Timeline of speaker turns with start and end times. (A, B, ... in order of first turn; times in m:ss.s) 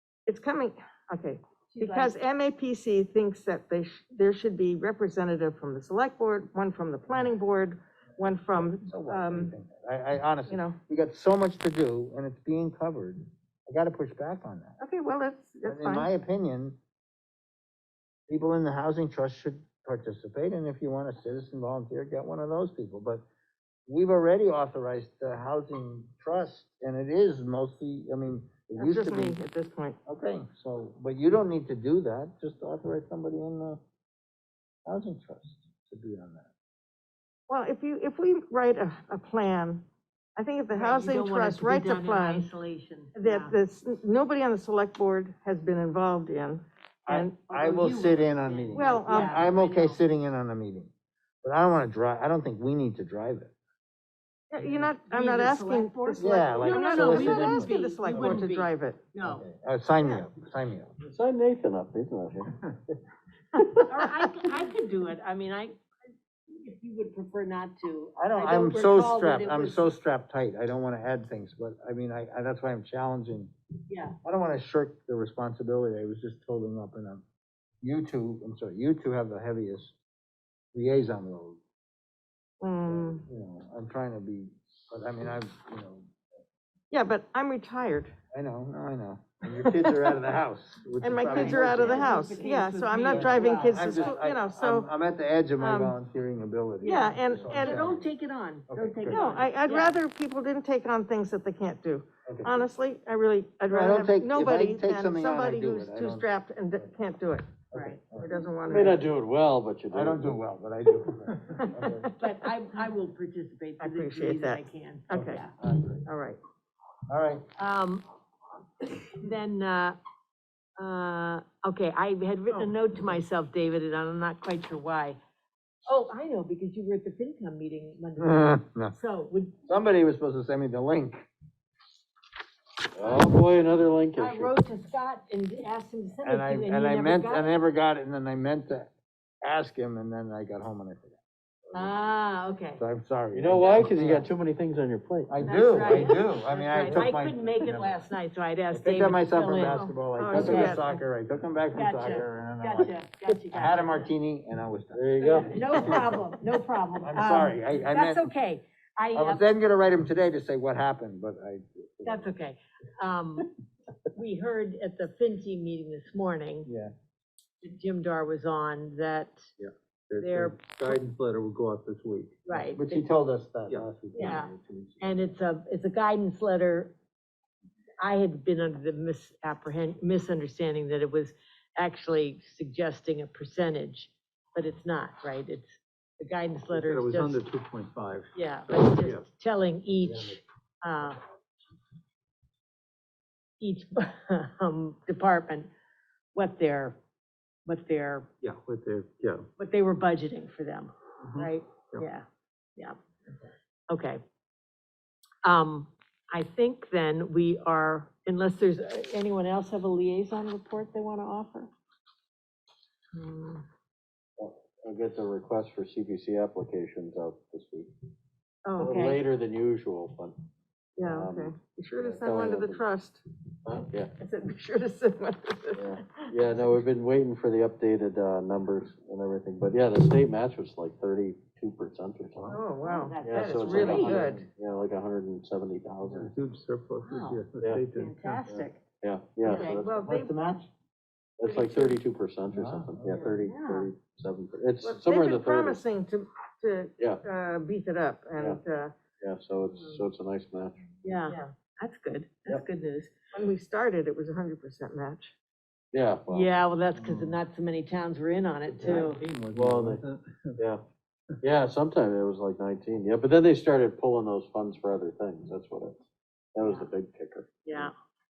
0:00.3-0:09.5 A
0:01.7-0:02.1 B
0:08.5-0:14.8 C
0:10.5-0:10.8 A
0:14.8-0:16.1 A
0:15.6-0:16.8 C
0:18.3-0:23.2 C
0:23.9-0:29.4 C
0:28.8-0:30.0 A
0:30.0-0:33.8 C
0:34.8-0:36.5 C
0:37.5-0:39.8 A
0:40.4-0:42.5 A
0:40.7-0:43.6 B
0:43.1-0:47.3 A
0:47.0-0:50.9 C
0:47.2-0:50.0 B
0:48.7-0:49.5 A
0:51.4-0:53.5 C
0:54.5-0:59.0 A
0:55.0-0:59.4 B
0:56.2-0:58.4 C
0:59.2-1:00.9 C
1:00.0-1:00.3 A
1:01.0-1:02.5 D
1:03.9-1:05.8 B
1:06.5-1:09.9 B
1:08.2-1:13.5 C
1:13.9-1:14.2 B
1:14.2-1:17.2 C
1:17.8-1:19.9 C
1:20.7-1:21.6 C
1:22.6-1:23.2 A
1:22.9-1:26.1 C
1:26.9-1:28.1 A
1:28.3-1:32.1 C
1:31.0-1:34.9 A
1:31.3-1:34.1 B
1:33.1-1:38.1 C
1:35.6-1:36.0 A
1:36.8-1:40.0 B
1:36.8-1:37.8 A
1:38.7-1:39.2 C
1:39.1-1:47.5 A
1:42.2-1:42.6 C
1:43.7-1:46.2 C
1:47.7-1:48.9 C
1:47.7-1:48.0 B
1:48.2-1:49.0 A
1:48.7-1:50.4 D
1:49.9-1:52.1 C
1:51.8-1:52.1 A
1:52.2-1:55.5 B
1:53.8-1:55.4 A
1:55.1-1:56.0 C
1:56.0-1:56.4 A
1:57.1-1:57.4 C
1:57.6-1:58.0 B
1:58.8-2:00.0 B
2:00.8-2:05.2 B
2:05.8-2:09.6 B
2:08.2-2:08.9 C
2:09.7-2:11.3 C
2:12.9-2:14.5 D
2:14.2-2:17.5 B
2:16.2-2:18.9 C
2:19.4-2:21.9 C
2:21.7-2:22.8 B
2:22.8-2:24.3 C
2:23.3-2:26.0 D
2:25.3-2:28.0 C
2:25.4-2:30.8 B
2:28.7-2:36.2 C
2:30.2-2:31.0 A
2:31.7-2:34.1 B
2:34.9-2:36.0 D
2:35.2-2:39.4 B
2:37.0-2:38.3 C
2:39.1-2:42.3 C
2:42.0-2:43.5 B
2:44.1-2:46.7 B
2:47.6-2:49.5 B
2:49.6-2:52.4 E
2:50.2-2:51.0 B
2:52.4-2:53.1 B
2:52.7-2:55.0 C
2:53.7-2:54.3 E
2:54.1-2:56.9 B
2:58.0-3:07.4 B
3:06.7-3:09.2 E
3:08.3-3:11.2 B
3:13.6-3:15.7 B
3:16.3-3:17.0 B
3:17.6-3:18.3 B
3:18.4-3:19.5 E
3:19.6-3:23.0 B
3:21.2-3:22.0 E
3:23.9-3:24.2 B
3:25.4-3:31.7 B
3:33.2-3:33.6 A
3:34.4-3:37.9 D
3:38.6-3:39.2 B
3:38.8-3:40.4 D
3:41.0-3:43.2 A
3:41.0-3:42.8 D
3:43.6-3:44.1 D
3:44.2-3:46.6 A
3:45.7-3:52.6 D
3:52.5-3:54.5 A
3:52.8-3:54.3 B
3:53.2-3:56.3 D
3:56.1-3:58.4 E
3:57.0-3:57.4 B
3:57.6-3:57.9 D
3:58.0-3:58.9 B
3:58.4-3:59.9 D
3:59.4-4:00.5 A
3:59.9-4:00.7 C
4:01.4-4:05.8 D
4:01.4-4:02.0 A
4:02.5-4:03.4 C
4:03.1-4:03.9 B
4:04.8-4:08.9 A
4:09.2-4:10.8 D
4:11.0-4:13.1 B
4:13.3-4:15.3 A
4:15.9-4:16.5 D
4:16.3-4:19.2 B
4:16.9-4:17.4 E
4:18.6-4:20.6 E
4:18.8-4:20.0 D
4:21.4-4:27.9 D
4:27.6-4:27.9 B